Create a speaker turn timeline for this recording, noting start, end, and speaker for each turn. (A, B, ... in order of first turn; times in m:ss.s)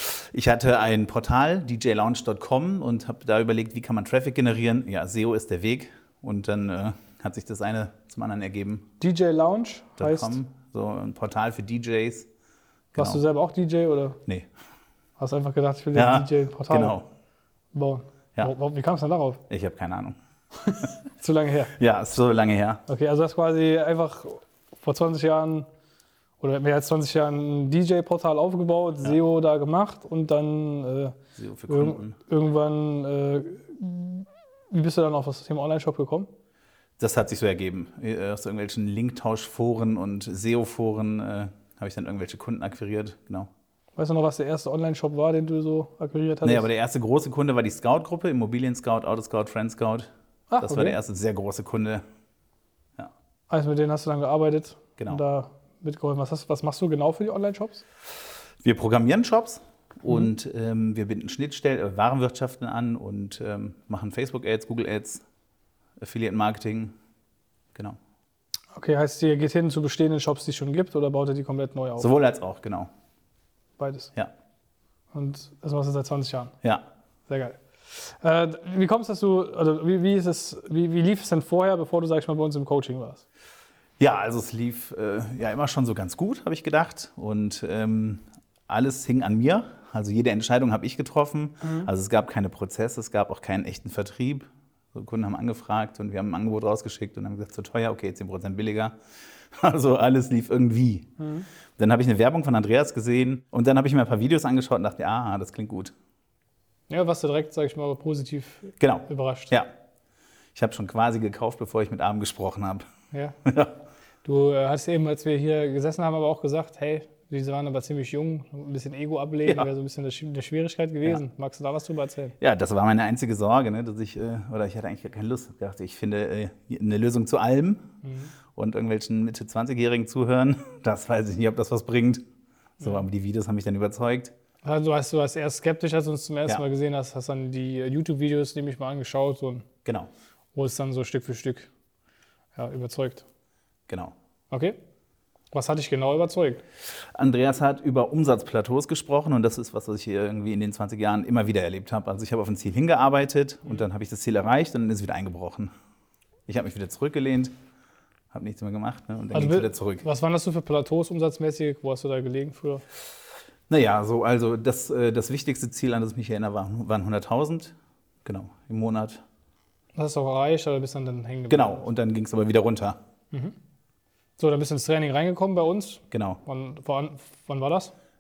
0:00.3-0:08.9 A
0:09.0-0:10.4 B
0:10.0-0:12.3 A
0:12.9-0:13.2 A
0:13.0-0:14.2 B
0:15.2-0:17.0 B
0:15.9-0:17.1 A
0:17.7-0:19.4 B
0:19.5-0:20.2 A
0:20.6-0:21.8 B
0:21.8-0:22.8 A
0:22.9-0:25.7 B
0:26.4-0:31.2 B
0:31.4-0:32.2 A
0:31.7-0:36.3 B
0:37.0-0:43.5 A
0:44.0-0:46.7 B
0:46.4-0:52.0 A
0:50.5-0:51.0 B
0:53.5-0:57.8 B
0:55.0-0:55.2 A
0:58.6-1:05.2 A
1:06.0-1:06.9 A
1:08.7-1:12.1 B
1:12.0-1:12.9 A
1:13.8-1:14.1 B
1:15.1-1:16.5 B
1:17.3-1:23.2 B
1:24.0-1:39.0 A
1:31.6-1:31.9 B
1:39.6-1:41.1 A
1:41.2-1:41.5 B
1:41.8-1:45.9 A
1:46.9-1:49.6 B
1:48.8-1:49.7 A
1:50.6-1:52.9 A
1:53.1-1:53.4 B
1:53.5-1:53.8 A
1:54.2-2:02.4 B
2:02.4-2:07.9 A
2:08.0-2:08.3 B
2:08.6-2:12.2 A
2:12.8-2:14.3 A
2:14.6-2:19.7 B
2:19.8-2:20.1 A
2:20.6-2:21.7 B
2:22.6-2:23.2 B
2:23.9-2:24.1 A
2:24.5-2:24.8 B
2:25.5-2:26.6 B
2:27.2-2:35.7 A
2:36.5-2:37.5 A
2:38.3-2:40.0 A
2:39.3-2:42.8 B
2:43.7-2:49.2 A
2:49.9-2:51.9 B
2:51.5-2:53.0 A
2:54.4-2:57.9 B
2:56.1-2:56.4 A